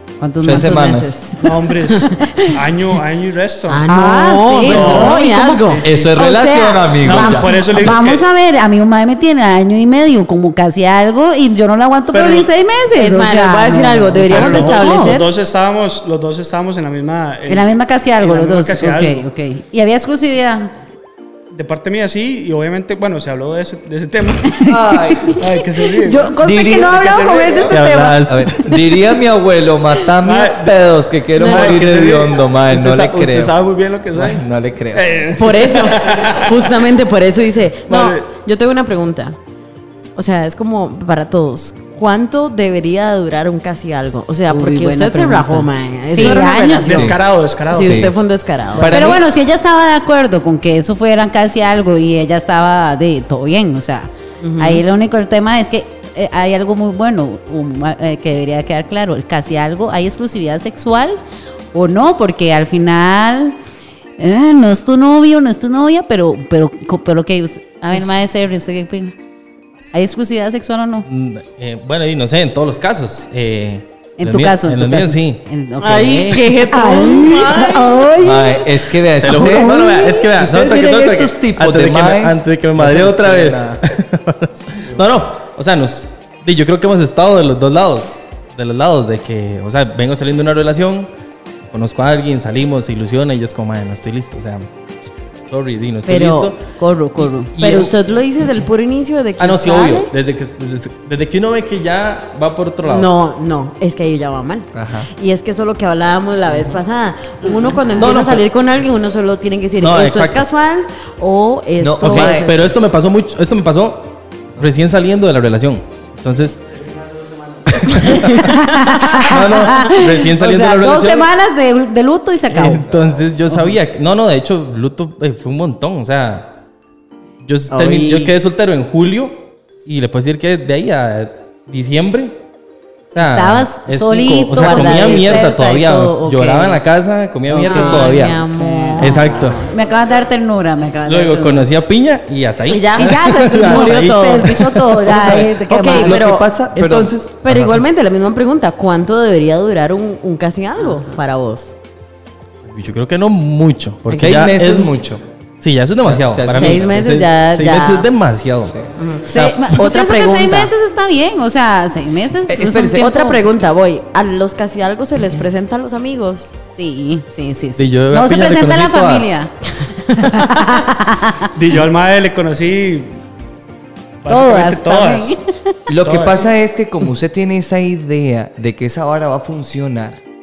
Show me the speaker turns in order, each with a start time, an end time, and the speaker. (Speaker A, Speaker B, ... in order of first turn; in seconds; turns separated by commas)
Speaker A: 0.2-1.1, Speaker B: 0.4-1.1, Speaker C: 0.4-2.1, Speaker D: 1.4-3.9, Speaker A: 2.2-2.5, Speaker C: 3.7-5.8, Speaker A: 3.9-15.2, Speaker D: 4.6-6.1, Speaker B: 5.8-8.0, Speaker D: 7.0-8.3, Speaker D: 12.1-12.5, Speaker C: 12.9-15.3, Speaker D: 14.3-19.3, Speaker A: 17.5-20.7, Speaker D: 21.5-24.6, Speaker A: 24.4-28.3, Speaker B: 24.6-25.4, Speaker D: 25.3-27.9, Speaker B: 26.4-27.0, Speaker E: 27.7-28.7, Speaker B: 28.3-33.6, Speaker D: 30.2-30.8, Speaker C: 31.4-31.9, Speaker D: 31.4-36.7, Speaker B: 34.2-35.0, Speaker C: 35.4-39.4, Speaker D: 37.9-38.3, Speaker C: 40.2-47.2, Speaker A: 44.5-47.1, Speaker D: 46.2-48.1, Speaker B: 46.9-47.2, Speaker C: 47.7-49.0, Speaker B: 47.7-48.1, Speaker B: 48.7-49.2, Speaker D: 48.8-49.0, Speaker A: 48.9-61.2, Speaker C: 54.4-54.8, Speaker A: 61.7-63.6, Speaker A: 64.2-69.2, Speaker A: 69.9-71.1, Speaker E: 71.1-75.4, Speaker A: 74.2-80.2, Speaker C: 75.8-78.0, Speaker B: 78.2-83.8, Speaker E: 79.2-91.1, Speaker E: 91.7-94.7, Speaker E: 95.5-96.6, Speaker C: 96.1-96.5, Speaker A: 96.8-97.5, Speaker E: 97.2-98.0, Speaker C: 97.6-100.1, Speaker E: 99.4-103.1, Speaker C: 102.8-112.8, Speaker B: 104.7-105.1, Speaker E: 108.0-108.5, Speaker E: 109.8-110.5, Speaker B: 111.8-112.7, Speaker E: 112.0-116.6, Speaker D: 116.9-117.6, Speaker E: 117.7-118.5, Speaker C: 118.0-118.9, Speaker A: 118.3-122.8, Speaker E: 119.1-121.3, Speaker E: 122.5-126.6, Speaker B: 122.6-123.2, Speaker E: 127.4-132.3, Speaker A: 127.7-128.1, Speaker C: 127.8-128.3, Speaker E: 133.1-138.4, Speaker A: 133.2-136.8, Speaker C: 134.6-135.2, Speaker A: 137.5-141.7, Speaker C: 137.6-139.6, Speaker E: 139.0-139.6, Speaker E: 141.1-144.8, Speaker C: 142.7-151.8, Speaker A: 143.0-146.2, Speaker B: 145.1-147.7, Speaker E: 147.5-147.8, Speaker E: 152.7-154.9, Speaker B: 154.1-155.2, Speaker E: 155.6-158.8, Speaker B: 156.1-156.9, Speaker C: 156.5-158.1, Speaker C: 159.0-160.7, Speaker A: 159.3-163.4, Speaker B: 162.5-163.1, Speaker C: 163.0-166.6, Speaker A: 166.8-169.5, Speaker E: 167.8-169.3, Speaker A: 170.1-171.5, Speaker C: 170.2-170.4, Speaker D: 171.6-173.2, Speaker D: 174.2-175.4, Speaker A: 174.3-175.5, Speaker B: 175.9-180.2, Speaker D: 176.0-176.5